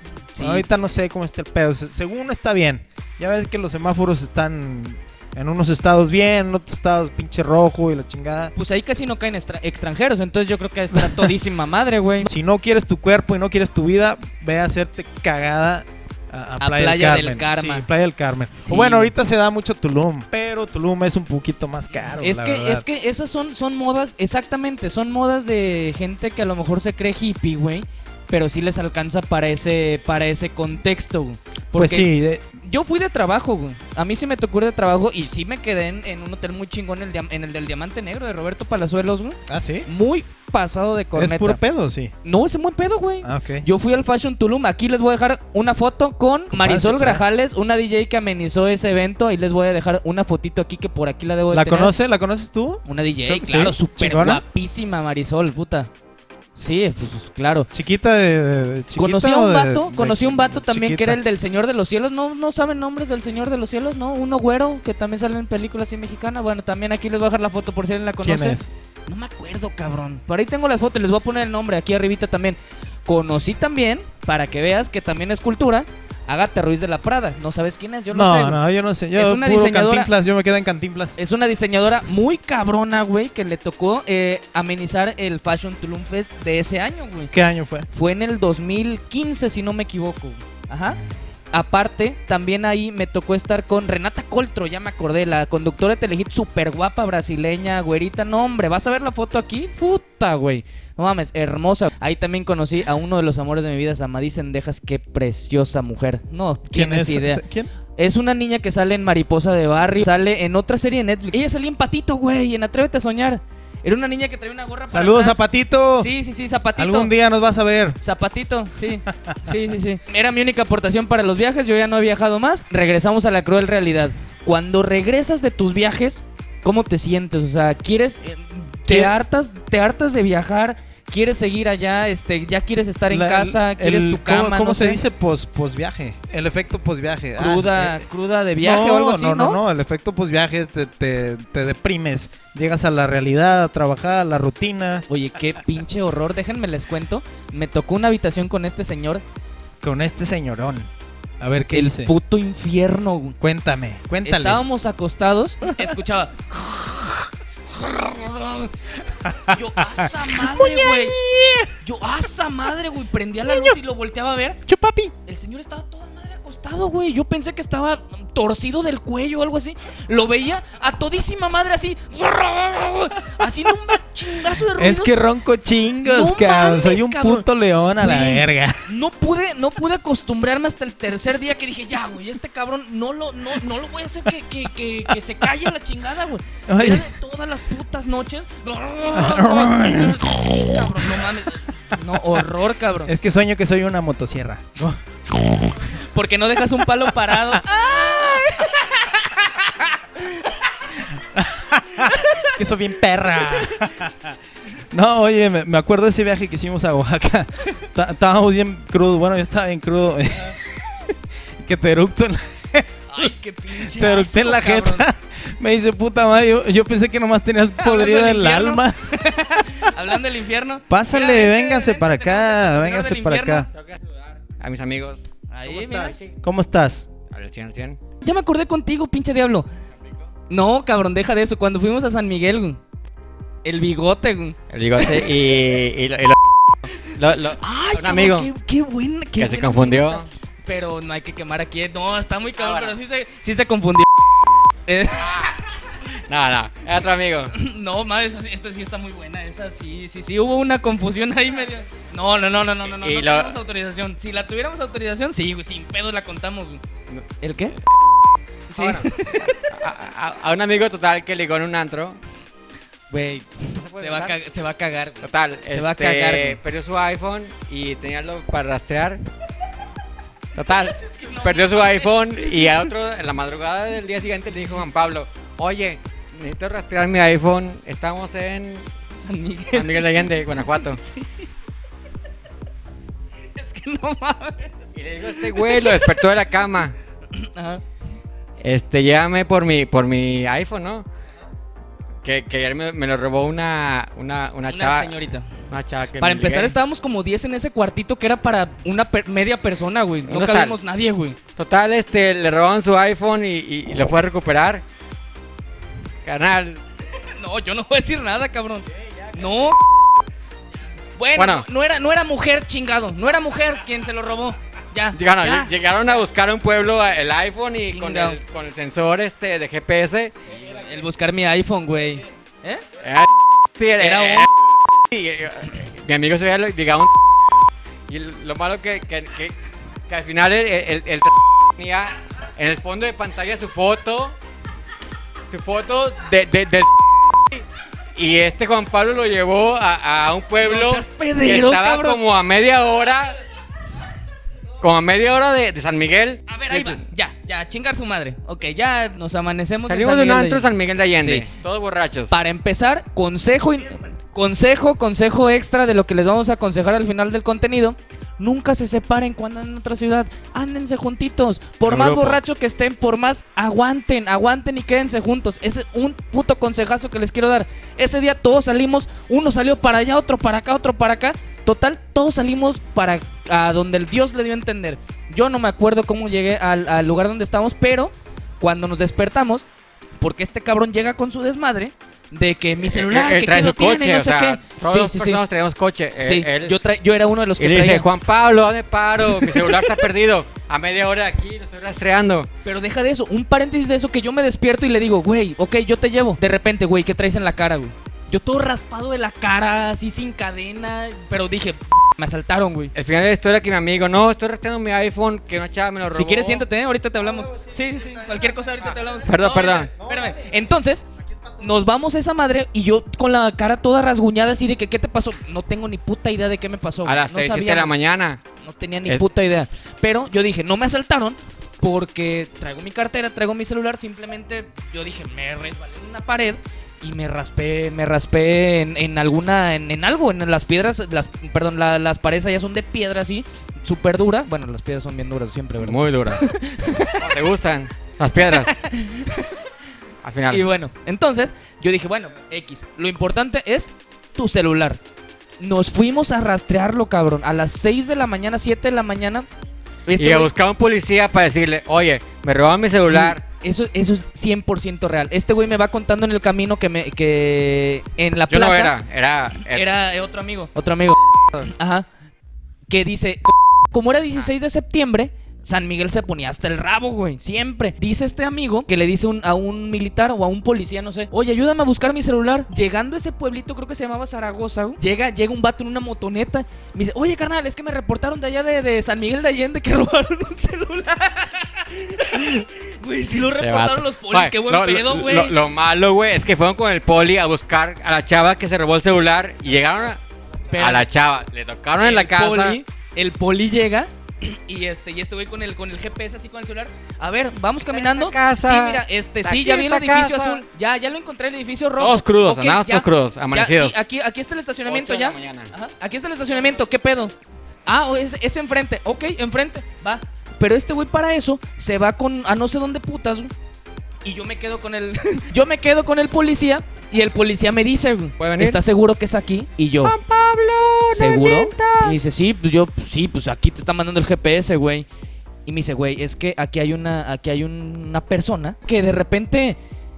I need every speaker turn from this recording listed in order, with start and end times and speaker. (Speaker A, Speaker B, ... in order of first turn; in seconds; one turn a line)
Speaker A: 0.3-0.7
Speaker B: 0.4-8.5
Speaker A: 8.5-12.3
Speaker B: 10.9-11.3
Speaker B: 12.2-22.8
Speaker A: 16.6-17.9
Speaker A: 18.6-19.1
Speaker A: 21.9-32.1
Speaker B: 31.7-32.4
Speaker A: 32.6-41.6
Speaker B: 39.5-39.9
Speaker B: 41.1-42.1
Speaker A: 42.2-51.9
Speaker B: 43.2-43.6
Speaker B: 46.5-47.2
Speaker B: 51.5-54.4
Speaker A: 52.9-55.9
Speaker A: 56.5-57.7
Speaker B: 57.7-61.2
Speaker A: 59.0-78.6
Speaker B: 68.2-68.7
Speaker B: 78.1-81.2
Speaker A: 79.1-80.1
Speaker A: 81.2-87.3
Speaker B: 87.3-87.9
Speaker A: 87.9-91.0
Speaker A: 91.5-107.4
Speaker B: 106.7-107.7
Speaker A: 108.0-115.4
Speaker B: 114.9-116.1
Speaker A: 115.9-117.1
Speaker B: 116.8-118.0
Speaker A: 118.0-135.0
Speaker B: 119.1-119.5
Speaker B: 128.9-129.1
Speaker B: 133.1-138.0
Speaker A: 137.4-139.6
Speaker B: 138.6-145.1
Speaker A: 145.1-149.2
Speaker B: 149.8-150.9
Speaker B: 151.4-152.1
Speaker A: 151.7-153.4
Speaker B: 153.4-154.7
Speaker A: 154.2-158.7
Speaker B: 155.7-155.9
Speaker B: 159.2-161.7
Speaker A: 159.5-161.2
Speaker A: 161.8-164.6
Speaker B: 163.5-163.8
Speaker B: 164.7-165.1
Speaker A: 165.2-175.1
Speaker B: 174.5-178.8
Speaker A: 176.0-177.4
Speaker A: 178.0-193.1
Speaker B: 186.7-187.1
Speaker B: 189.1-191.5
Speaker B: 192.1-192.4
Speaker B: 193.1-195.9
Speaker A: 196.0-200.5
Speaker B: 197.3-198.4
Speaker B: 201.1-204.3
Speaker A: 202.0-202.5
Speaker B: 204.9-219.9
Speaker A: 213.1-215.1
Speaker A: 217.8-223.7
Speaker B: 220.9-223.7
Speaker C: 223.7-225.2
Speaker A: 225.5-226.2
Speaker B: 225.6-227.1
Speaker C: 227.3-228.0
Speaker A: 228.2-229.7
Speaker A: 230.5-232.8
Speaker A: 233.6-235.1
Speaker C: 234.7-238.5
Speaker A: 237.1-244.1
Speaker C: 239.4-240.2
Speaker C: 242.6-242.9
Speaker A: 244.8-245.4
Speaker C: 245.1-245.5
Speaker C: 246.3-247.5
Speaker A: 247.5-256.8
Speaker C: 252.8-253.6
Speaker A: 257.4-257.7
Speaker A: 258.7-259.6
Speaker C: 258.8-262.2
Speaker A: 263.1-266.6
Speaker C: 263.8-264.3
Speaker C: 265.2-269.2
Speaker C: 270.5-278.9
Speaker A: 270.9-272.8
Speaker A: 279.2-281.5
Speaker C: 279.7-281.0
Speaker A: 283.5-284.7
Speaker C: 284.9-286.9
Speaker A: 285.3-285.9
Speaker A: 287.3-287.8
Speaker C: 288.6-291.1
Speaker C: 292.2-295.1
Speaker A: 294.7-295.5
Speaker C: 295.7-296.7
Speaker A: 296.2-301.4
Speaker C: 300.3-300.8
Speaker C: 301.6-304.8
Speaker C: 306.2-306.8
Speaker A: 307.1-309.8
Speaker A: 311.2-315.7
Speaker C: 311.4-311.6
Speaker C: 315.1-320.3
Speaker A: 317.9-318.4
Speaker A: 320.5-322.8
Speaker C: 323.0-324.5
Speaker A: 324.0-324.5
Speaker C: 325.1-327.1
Speaker C: 328.1-329.5
Speaker C: 330.1-334.4
Speaker C: 335.5-337.6
Speaker C: 338.1-343.4
Speaker A: 340.6-342.2
Speaker C: 344.8-347.0
Speaker A: 346.5-351.5
Speaker C: 349.9-352.3
Speaker A: 352.3-379.6
Speaker C: 361.8-362.4
Speaker A: 380.2-385.4
Speaker C: 382.8-386.8
Speaker A: 386.2-388.1
Speaker C: 387.6-392.5
Speaker A: 389.4-389.8
Speaker A: 392.6-402.9
Speaker C: 402.9-406.6
Speaker A: 406.1-411.0
Speaker B: 407.5-408.4
Speaker C: 409.2-409.9
Speaker B: 410.0-410.4
Speaker A: 411.6-417.9
Speaker C: 417.0-418.4
Speaker A: 418.6-437.3
Speaker C: 435.8-436.4
Speaker C: 437.1-438.7
Speaker A: 438.5-439.6
Speaker C: 440.2-440.6
Speaker A: 440.5-445.0
Speaker A: 445.6-449.5
Speaker A: 450.1-450.5
Speaker C: 450.2-453.4
Speaker A: 453.1-458.9
Speaker C: 458.5-459.8
Speaker A: 459.6-462.1
Speaker A: 462.9-485.6
Speaker C: 483.4-490.2
Speaker A: 490.7-491.1
Speaker C: 490.8-492.8
Speaker A: 492.0-507.3
Speaker C: 497.9-500.6
Speaker C: 502.0-504.0
Speaker C: 504.9-505.7
Speaker A: 507.9-513.5
Speaker A: 514.2-520.1
Speaker C: 518.4-518.8
Speaker C: 520.0-522.1
Speaker A: 521.1-525.0
Speaker A: 525.6-529.8